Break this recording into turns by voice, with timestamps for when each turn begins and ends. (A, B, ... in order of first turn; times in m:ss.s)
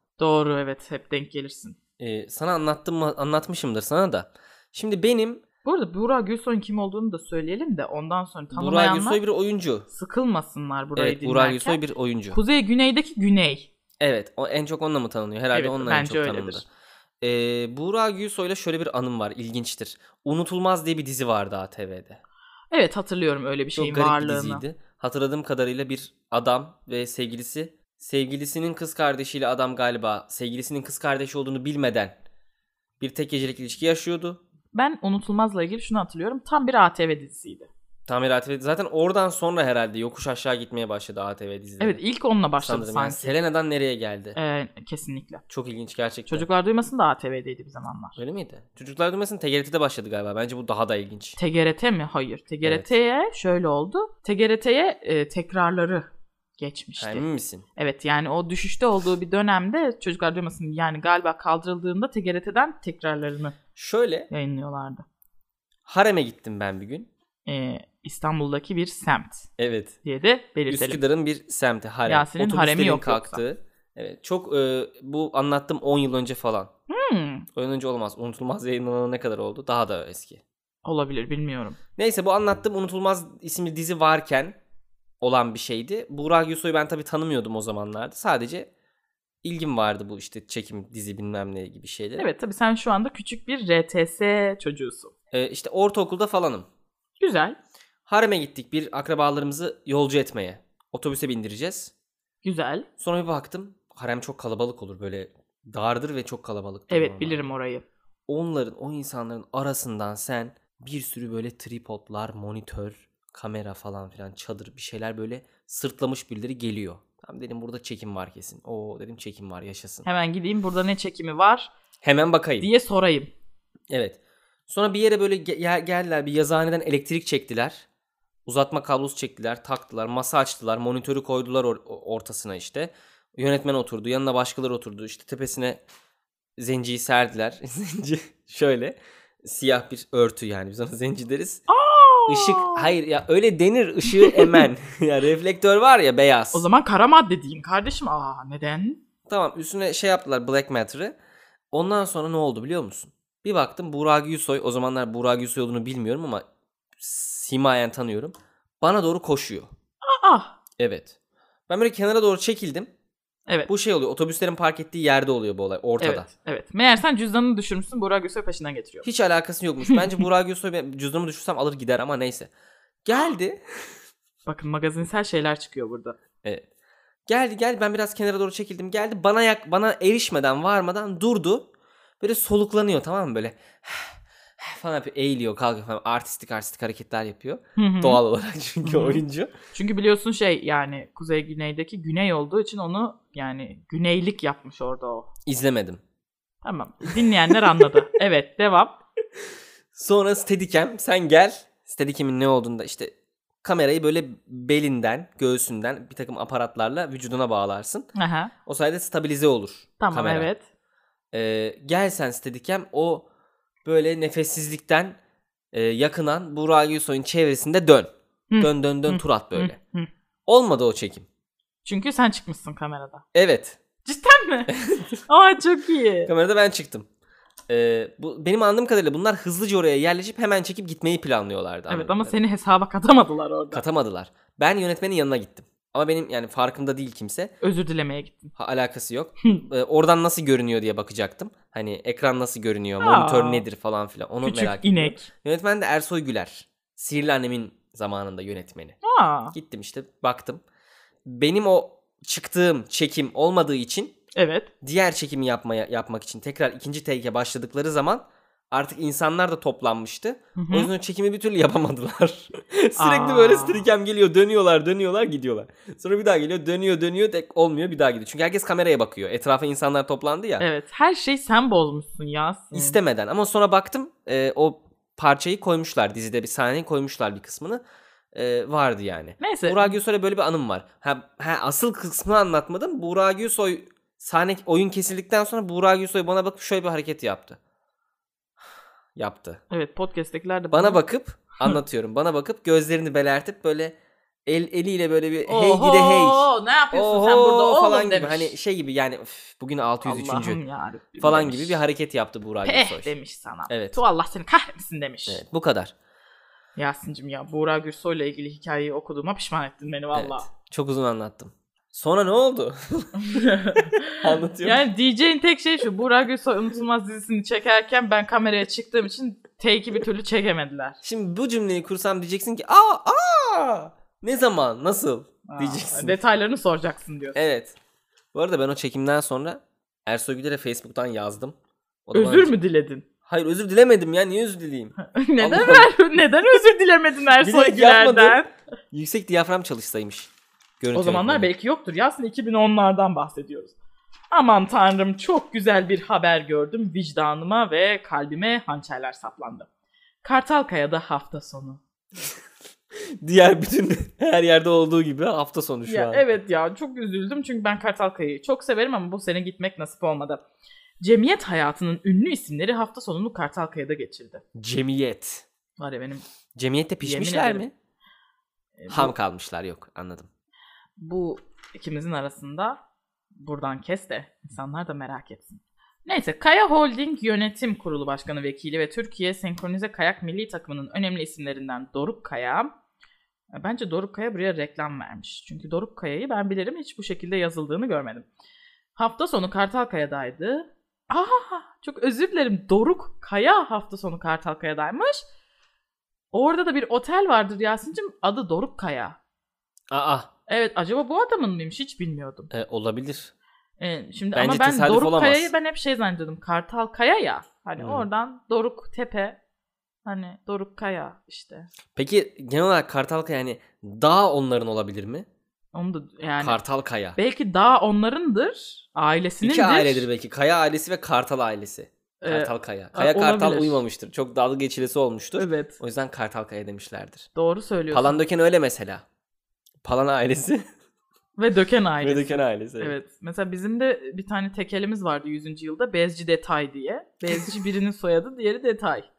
0:00.2-0:01.8 A
0:02.0-0:05.4 B
0:05.6-0:09.2 A
0:08.5-0:09.9 B
0:09.9-0:13.7 A
0:11.0-0:12.4 B
0:14.0-0:16.6 B
0:15.5-0:16.6 A
0:17.2-0:22.2 B
0:22.7-0:24.6 A
0:23.8-0:32.2 B
0:33.0-0:34.4 B
0:34.7-0:37.7 A
0:38.1-0:42.0 B
0:41.8-0:43.3 A
0:42.6-0:44.4 B
0:44.3-0:45.4 A
0:45.5-0:46.4 B
0:46.3-0:48.2 A
0:48.2-0:51.4 B
0:51.4-0:56.0 A
0:52.6-0:52.9 B
0:56.6-1:03.6 A
0:57.0-0:57.6 B
1:03.8-1:04.3 B
1:04.3-1:05.0 A
1:05.8-1:07.1 B
1:07.4-1:09.5 A
1:09.6-1:10.0 B
1:10.0-1:11.0 A
1:10.7-1:16.7 B
1:12.1-1:13.4 A
1:16.9-1:17.5 A
1:17.5-1:20.4 B
1:20.8-1:21.8 A
1:22.0-1:24.6 B
1:25.2-1:28.7 B
1:29.4-1:32.3 B
1:32.2-1:35.1 A
1:35.3-1:36.7 B
1:37.2-1:37.6 A
1:38.1-1:41.9 B
1:42.4-1:42.9 A
1:43.0-1:47.5 B
1:46.9-1:47.8 A
1:48.3-2:00.0 B
2:00.0-2:01.7 A
2:02.0-2:02.7 B
2:02.6-2:03.3 A
2:03.9-2:07.8 B
2:08.4-2:15.8 B
2:16.6-2:21.6 B
2:21.7-2:22.9 A
2:22.3-2:26.6 B
2:24.1-2:24.6 A
2:26.5-2:29.0 A
2:29.3-2:31.1 B
2:31.7-2:36.4 B
2:37.0-2:39.7 B
2:40.0-2:40.5 A
2:40.8-2:41.2 B
2:41.7-2:42.9 B
2:43.7-2:46.3 B
2:46.0-2:49.0 A
2:49.0-2:52.5 B
2:53.0-2:53.9 B
2:54.4-2:56.2 A
2:57.3-3:01.7 B
3:02.2-3:09.5 B
3:07.8-3:08.2 A
3:08.8-3:09.2 A
3:09.7-3:15.3 A
3:15.4-3:16.0 B
3:16.6-3:19.0 A
3:17.1-3:18.0 B
3:19.9-3:28.1 B
3:28.1-3:28.5 A
3:28.6-3:30.5 B
3:30.0-3:30.6 A
3:31.3-3:33.3 B
3:33.8-3:35.2 B
3:35.7-3:39.8 B
3:38.5-3:40.1 A
3:40.5-3:41.2 B
3:41.8-3:43.2 A
3:43.3-3:43.8 B
3:44.0-3:44.7 A
3:44.7-3:45.2 B
3:45.2-3:46.3 A
3:46.2-3:47.1 B
3:47.7-3:52.3 B
3:51.9-3:53.8 A
3:53.7-3:57.5 B
3:57.6-3:58.5 A
3:58.6-4:09.0 B
4:03.0-4:03.6 A
4:04.4-4:05.3 A
4:09.0-4:09.6 A
4:09.5-4:10.6 B
4:11.2-4:14.1 B
4:14.4-4:14.7 A
4:14.8-4:30.6 B
4:20.6-4:20.9 A
4:23.0-4:23.9 A
4:30.6-4:33.0 A
4:32.7-4:47.6 B
4:39.4-4:40.0 A
4:49.2-4:49.6 B
4:49.7-4:51.0 A
4:50.7-5:00.6 B
4:55.5-4:58.5 A
5:00.0-5:01.8 A
5:01.2-5:03.1 B
5:02.6-5:05.4 A
5:03.7-5:04.0 B
5:05.3-5:05.9 B
5:06.8-5:10.5 A
5:10.1-5:14.8 B
5:13.2-5:21.0 A
5:21.0-5:26.2 B
5:25.4-5:27.4 A
5:27.3-5:27.8 B
5:28.3-5:32.5 B
5:32.1-5:33.0 A
5:33.2-5:35.9 B
5:35.0-5:38.5 A
5:37.4-5:41.5 B
5:40.9-5:43.8 A
5:44.3-5:49.7 A
5:50.2-5:51.8 A
5:52.9-5:56.2 B
5:55.8-6:00.4 A
6:01.0-6:04.4 A
6:04.6-6:05.4 B
6:05.8-6:06.2 A
6:06.6-6:07.7 B
6:07.0-6:07.6 A
6:08.8-6:09.1 A
6:08.9-6:10.3 B
6:11.0-6:12.8 A
6:13.4-6:22.7 A
6:23.5-6:28.2 A
6:29.0-6:35.2 A
6:36.3-6:39.2 A
6:39.9-6:40.3 B
6:40.5-6:42.5 A
6:42.5-6:43.3 B
6:43.8-6:49.4 A
6:44.3-6:45.5 B
6:47.8-6:48.0 B
6:50.0-6:51.7 A
6:51.9-6:55.3 B
6:55.7-6:56.6 A
6:56.4-6:57.2 B
6:57.2-7:00.1 A
6:59.4-7:07.3 B
7:02.2-7:03.8 A
7:05.4-7:05.8 A
7:07.3-7:08.2 A
7:07.9-7:09.0 B
7:09.8-7:10.6 B
7:11.4-7:19.1 A
7:12.0-7:12.9 B